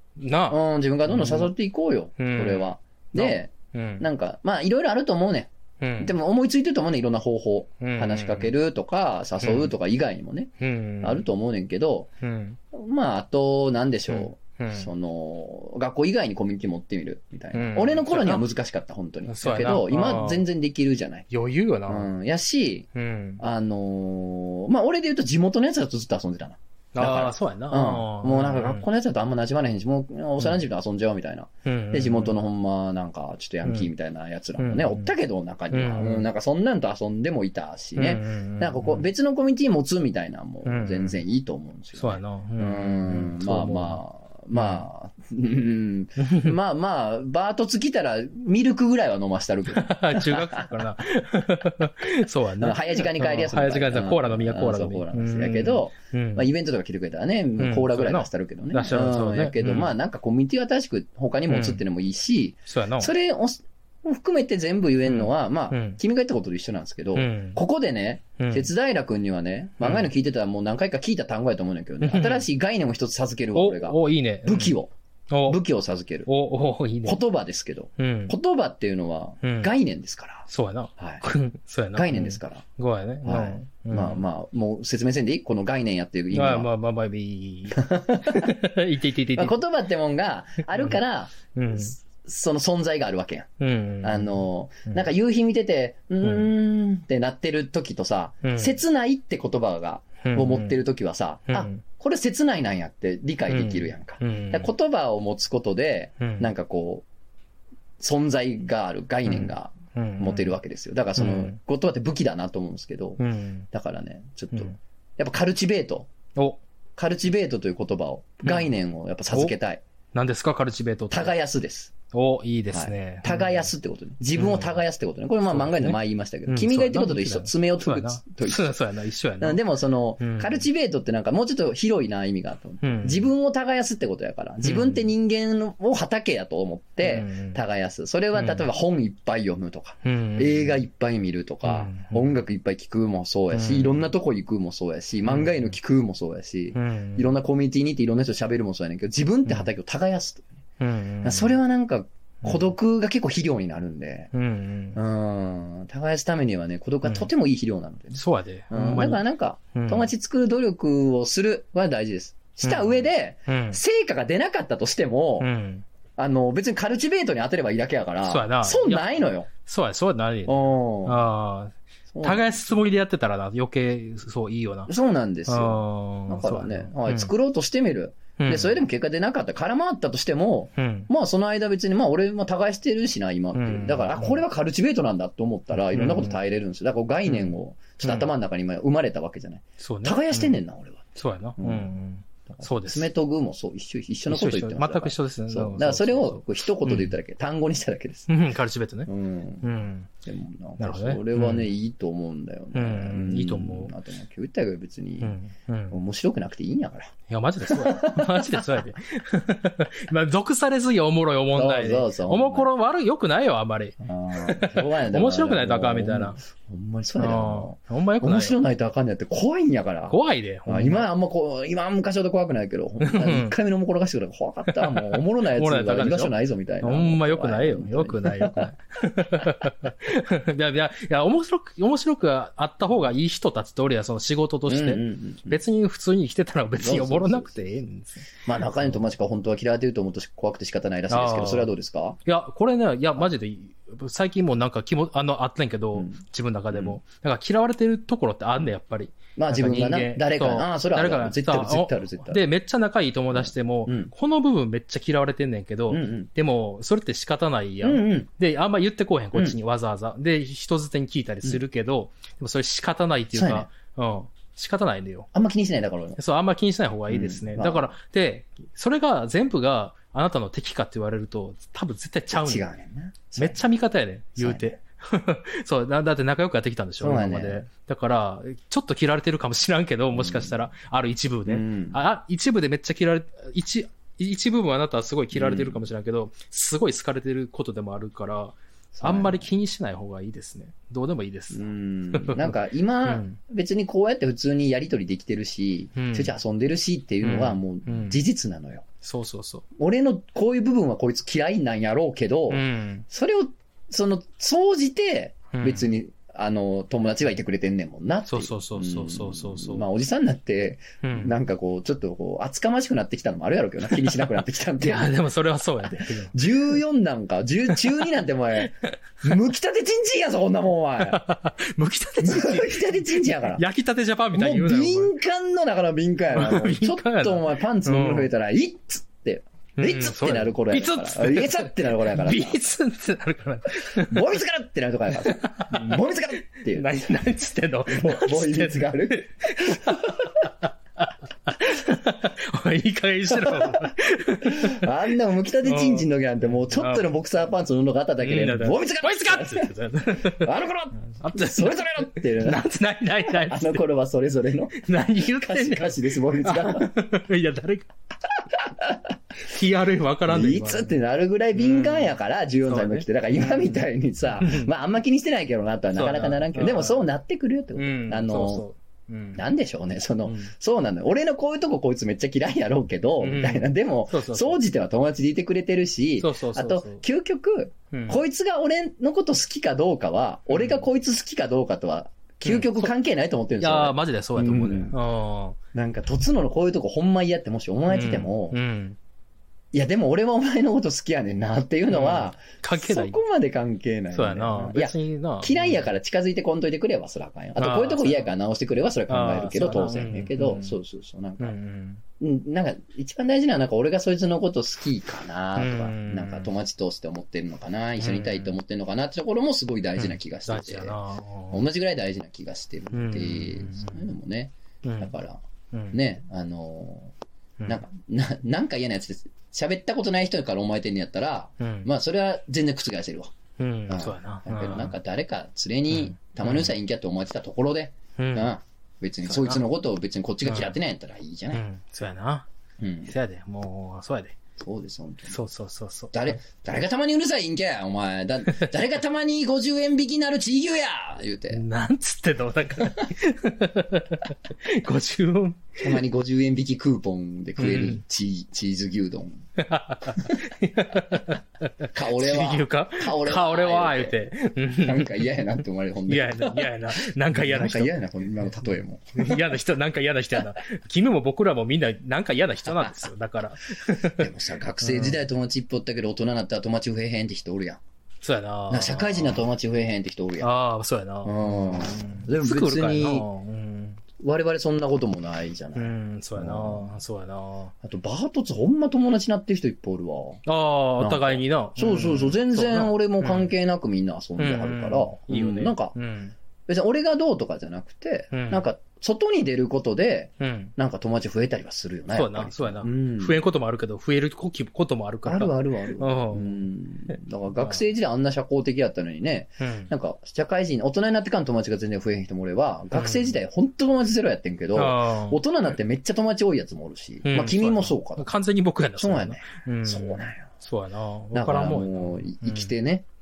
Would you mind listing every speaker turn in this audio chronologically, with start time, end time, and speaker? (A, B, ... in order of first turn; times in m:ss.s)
0:00.2-0:01.5 A
0:00.5-0:12.1 B
0:02.2-0:04.0 A
0:05.8-0:06.1 A
0:07.8-0:08.5 A
0:09.4-0:09.7 A
0:10.6-0:11.2 A
0:12.2-0:12.6 A
0:12.7-0:21.2 B
0:14.1-0:14.9 A
0:17.5-0:18.4 A
0:19.3-0:20.4 A
0:21.3-0:22.1 A
0:21.9-0:22.8 B
0:22.9-0:23.4 A
0:23.4-0:50.8 B
0:26.9-0:28.8 A
0:31.6-0:32.4 A
0:33.6-0:33.9 A
0:34.6-0:35.1 A
0:35.7-0:36.3 A
0:38.0-0:39.1 A
0:40.6-0:41.2 A
0:42.0-0:44.0 A
0:44.5-0:44.8 A
0:46.2-0:46.6 A
0:49.7-0:56.4 A
0:52.6-1:14.9 B
0:57.6-0:59.9 A
1:01.5-1:01.8 A
1:02.7-1:03.1 A
1:05.0-1:06.0 A
1:07.1-1:07.6 A
1:08.4-1:08.7 A
1:09.8-1:10.1 A
1:12.0-1:12.4 A
1:13.5-1:14.7 A
1:15.3-1:15.6 A
1:15.5-1:16.3 B
1:16.2-1:17.2 A
1:17.0-1:20.4 B
1:18.0-1:18.3 A
1:19.4-1:19.7 A
1:20.5-1:24.2 A
1:21.0-1:21.2 B
1:21.9-1:22.6 B
1:23.2-1:26.7 B
1:26.3-1:29.6 A
1:27.7-1:28.5 B
1:29.3-1:33.5 B
1:31.5-1:31.9 A
1:33.6-1:35.0 A
1:34.0-1:47.0 B
1:36.2-1:36.5 A
1:38.4-1:38.8 A
1:40.2-1:40.8 A
1:41.5-1:41.8 A
1:43.5-1:44.7 A
1:46.2-1:46.5 A
1:48.0-1:53.2 B
1:49.2-1:50.5 A
1:51.2-1:51.6 A
1:53.2-1:53.7 A
1:53.7-1:56.1 B
1:56.3-1:56.6 A
1:57.0-1:59.8 B
1:58.4-1:58.7 A
2:00.1-2:01.4 A
2:01.1-2:01.9 B
2:02.1-2:03.7 A
2:02.7-2:08.8 B
2:04.3-2:04.8 A
2:05.5-2:09.6 A
2:09.4-2:30.5 B
2:10.2-2:10.6 A
2:12.8-2:13.3 A
2:14.6-2:15.0 A
2:17.0-2:17.6 A
2:18.3-2:18.7 A
2:20.0-2:20.8 A
2:21.6-2:22.3 A
2:23.5-2:24.1 A
2:25.2-2:25.8 A
2:26.7-2:27.3 A
2:30.8-2:31.6 A
2:31.2-2:34.3 B
2:32.4-2:32.7 A
2:34.3-2:35.0 A
2:34.9-2:45.5 B
2:37.0-2:37.3 A
2:38.1-2:40.1 A
2:42.6-2:43.8 A
2:45.4-2:45.8 A
2:46.2-2:49.5 B
2:48.2-2:54.9 A
2:50.4-2:51.2 B
2:52.1-2:52.6 B
2:54.9-3:11.9 B
2:55.5-2:57.3 A
2:58.4-2:58.8 A
3:00.8-3:01.1 A
3:03.5-3:04.4 A
3:05.9-3:06.4 A
3:07.3-3:08.3 A
3:09.8-3:10.5 A
3:11.2-3:13.1 A
3:12.4-3:18.3 B
3:14.3-3:17.1 A
3:18.3-3:19.1 A
3:19.1-3:19.6 B
3:19.6-3:20.1 A
3:20.2-3:25.4 B
3:20.8-3:21.7 A
3:22.7-3:23.9 A
3:25.2-3:26.0 A
3:25.9-3:27.1 B
3:27.3-3:36.4 A
3:27.7-3:28.6 B
3:31.5-3:32.7 B
3:34.0-3:48.7 B
3:37.2-3:38.6 A
3:40.1-3:41.0 A
3:43.0-3:43.6 A
3:44.7-3:58.3 A
3:54.7-3:55.6 B
3:56.8-3:57.6 B
3:58.4-4:02.2 B
4:01.1-4:01.7 A
4:02.2-4:25.3 A
4:05.9-4:06.2 B
4:06.7-4:07.0 B
4:09.4-4:12.4 B
4:13.3-4:14.1 B
4:15.9-4:16.3 B
4:17.8-4:18.3 B
4:23.3-4:23.7 B
4:25.3-4:26.2 B
4:26.2-4:32.6 A
4:27.1-4:27.9 B
4:32.3-4:33.6 B
4:33.4-4:53.4 A
4:34.4-4:34.8 B
4:37.0-4:37.6 B
4:40.1-4:40.6 B
4:41.4-4:42.0 B
4:45.3-4:45.8 B
4:48.9-4:49.4 B
4:51.5-4:58.8 B
4:56.0-4:56.3 A
4:57.2-4:58.2 A
4:59.0-4:59.6 A
4:59.8-5:15.1 B
5:02.5-5:03.0 A
5:05.5-5:05.8 A
5:08.2-5:09.8 A
5:11.0-5:11.3 A
5:14.8-5:16.3 A
5:15.9-5:21.2 B
5:17.8-5:18.0 A
5:18.6-5:18.9 A
5:21.0-5:25.1 A
5:22.2-5:23.6 B
5:24.3-5:32.6 B
5:26.3-5:28.3 A
5:29.8-5:34.4 A
5:33.8-5:36.8 B
5:35.2-5:36.0 A
5:36.6-5:44.8 A
5:37.9-5:40.4 B
5:43.4-5:43.9 B
5:44.4-5:52.7 B
5:45.6-5:47.0 A
5:48.2-5:50.5 A
5:51.2-5:53.8 A
5:53.3-5:56.9 B
5:54.8-5:57.9 A
5:59.4-6:00.9 A
6:00.3-6:08.6 B
6:01.5-6:02.1 A
6:02.7-6:03.8 A
6:04.4-6:04.7 A
6:05.9-6:07.0 A
6:07.7-6:09.4 A
6:09.3-6:25.0 B
6:10.2-6:10.5 A
6:13.2-6:14.6 A
6:16.2-6:17.0 A
6:17.9-6:18.2 A
6:20.5-6:20.8 A
6:22.4-6:22.9 A
6:23.6-6:25.6 A
6:25.7-6:28.6 B
6:27.9-6:29.0 A
6:29.7-6:41.6 B
6:31.9-6:33.2 A
6:34.1-6:35.9 A
6:37.6-6:38.3 A
6:39.1-6:40.8 A
6:41.4-6:42.0 A
6:42.2-6:51.0 B
6:45.6-6:46.5 A
6:48.0-6:48.5 A
6:50.0-6:51.6 A
6:51.5-6:57.1 B
6:52.9-6:54.1 A
6:54.8-6:55.1 A
6:55.7-6:56.0 A
6:57.7-7:03.3 B
7:01.6-7:01.9 A
7:03.6-7:04.9 A
7:03.9-7:11.6 B
7:05.9-7:06.7 A
7:08.2-7:08.5 A
7:09.2-7:09.6 A
7:10.4-7:10.8 A
7:11.5-7:12.5 A
7:12.8-7:13.1 B
7:13.0-7:14.4 A
7:14.6-7:15.4 B
7:15.3-7:16.4 A
7:16.1-7:21.6 B
7:21.5-7:26.0 A
7:25.8-7:29.4 B
7:27.6-7:28.0 A
7:29.6-7:35.3 A
7:30.1-7:30.4 B
7:31.9-7:39.6 B
7:36.1-7:38.0 A
7:39.1-7:45.3 A
7:42.7-7:43.0 B
7:44.0-7:47.8 B
7:48.2-7:49.4 A
7:48.7-7:50.5 B
7:50.4-7:54.0 A
7:51.2-7:53.2 B
7:54.2-7:56.9 B
7:55.7-7:57.7 A
7:57.8-8:00.4 B
8:00.4-8:03.5 A
8:01.0-8:06.0 B
8:04.4-8:06.3 A
8:06.7-8:13.4 B
8:08.3-8:08.7 A
8:10.4-8:10.7 A
8:12.1-8:16.6 A
8:15.2-8:28.3 B
8:17.6-8:17.8 A
8:19.6-8:19.9 A
8:22.9-8:23.4 A
8:24.7-8:25.4 A
8:27.2-8:32.7 A
8:29.0-8:30.5 B
8:31.3-8:33.0 B